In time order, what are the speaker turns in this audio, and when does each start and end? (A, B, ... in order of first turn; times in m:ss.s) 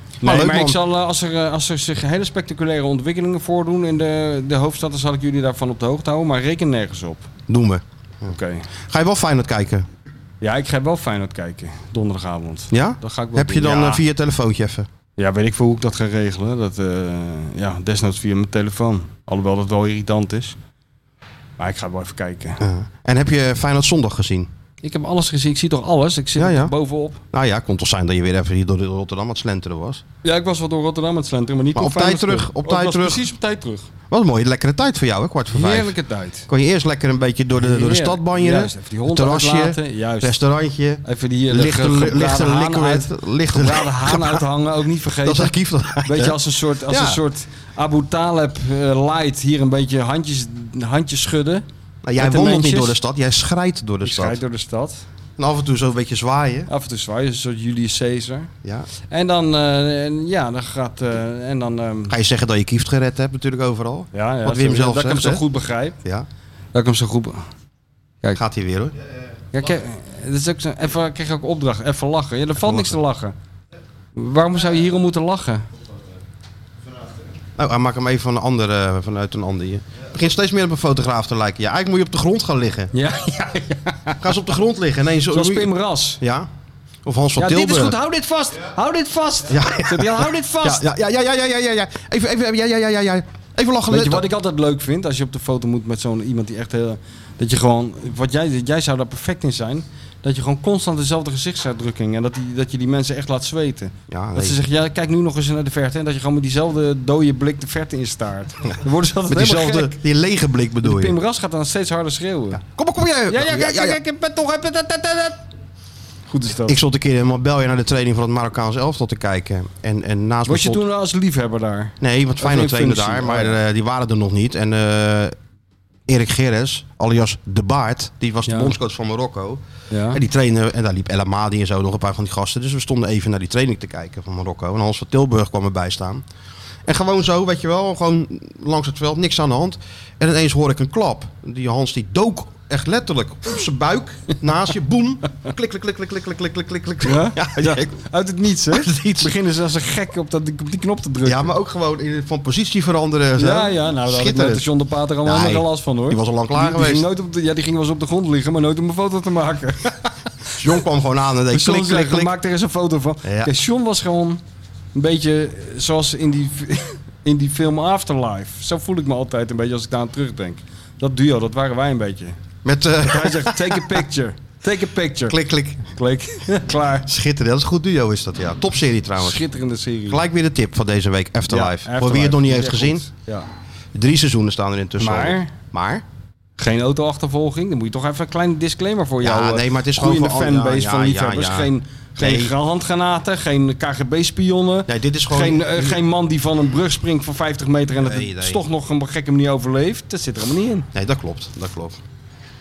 0:00.2-0:00.8 A
0:00.2-0:07.3 B
0:07.5-0:08.3 A
0:08.2-0:08.7 B
0:08.9-0:09.8 A
0:10.4-0:14.0 B
0:12.7-0:14.9 A
0:15.2-0:20.6 B
0:21.6-0:22.6 B
0:22.6-0:24.5 A
0:24.8-0:27.2 B
0:26.4-0:26.7 A
0:27.3-0:30.0 A
0:30.2-0:33.8 B
0:31.7-0:33.3 A
0:34.1-0:35.9 A
0:35.5-0:36.5 B
0:36.5-0:44.4 A
0:37.6-0:40.4 B
0:41.0-0:51.6 B
0:45.2-0:47.2 A
0:52.0-0:54.4 A
0:52.2-0:53.0 B
0:54.0-0:55.0 B
0:55.4-0:56.7 A
0:56.7-0:58.5 B
0:59.1-1:02.1 B
1:02.1-1:05.4 A
1:04.1-1:06.0 B
1:06.7-1:07.4 B
1:08.4-1:09.0 A
1:09.5-1:13.3 B
1:12.6-1:12.9 A
1:14.2-1:15.6 B
1:17.6-1:22.9 A
1:22.9-1:24.3 B
1:24.2-1:26.5 A
1:25.3-1:26.2 B
1:27.0-1:28.0 A
1:27.4-1:30.8 B
1:29.5-1:34.2 A
1:33.9-1:50.0 B
1:44.1-1:44.6 A
1:49.3-1:51.2 A
1:50.8-1:52.6 B
1:52.5-1:54.0 A
1:53.3-1:55.4 B
1:56.3-1:56.8 B
1:56.6-2:00.8 A
2:00.4-2:03.6 B
2:02.0-2:05.3 A
2:06.1-2:16.2 A
2:08.5-2:08.7 B
2:09.9-2:10.2 B
2:16.8-2:28.0 A
2:27.0-2:31.5 B
2:28.7-2:29.3 A
2:31.2-2:34.7 A
2:33.4-2:40.0 B
2:35.2-2:37.1 A
2:40.6-2:42.3 A
2:41.5-2:44.4 B
2:43.2-2:43.5 A
2:44.9-2:52.4 B
2:52.6-2:54.0 A
2:53.0-2:55.4 B
2:55.3-2:55.8 A
2:55.9-2:57.1 B
2:57.0-2:59.4 A
2:59.2-3:00.2 B
3:00.1-3:03.0 A
3:01.5-3:03.5 B
3:03.9-3:06.0 A
3:05.0-3:05.5 B
3:06.6-3:20.9 B
3:09.2-3:12.5 A
3:14.9-3:16.0 A
3:18.0-3:18.6 A
3:20.9-3:22.0 A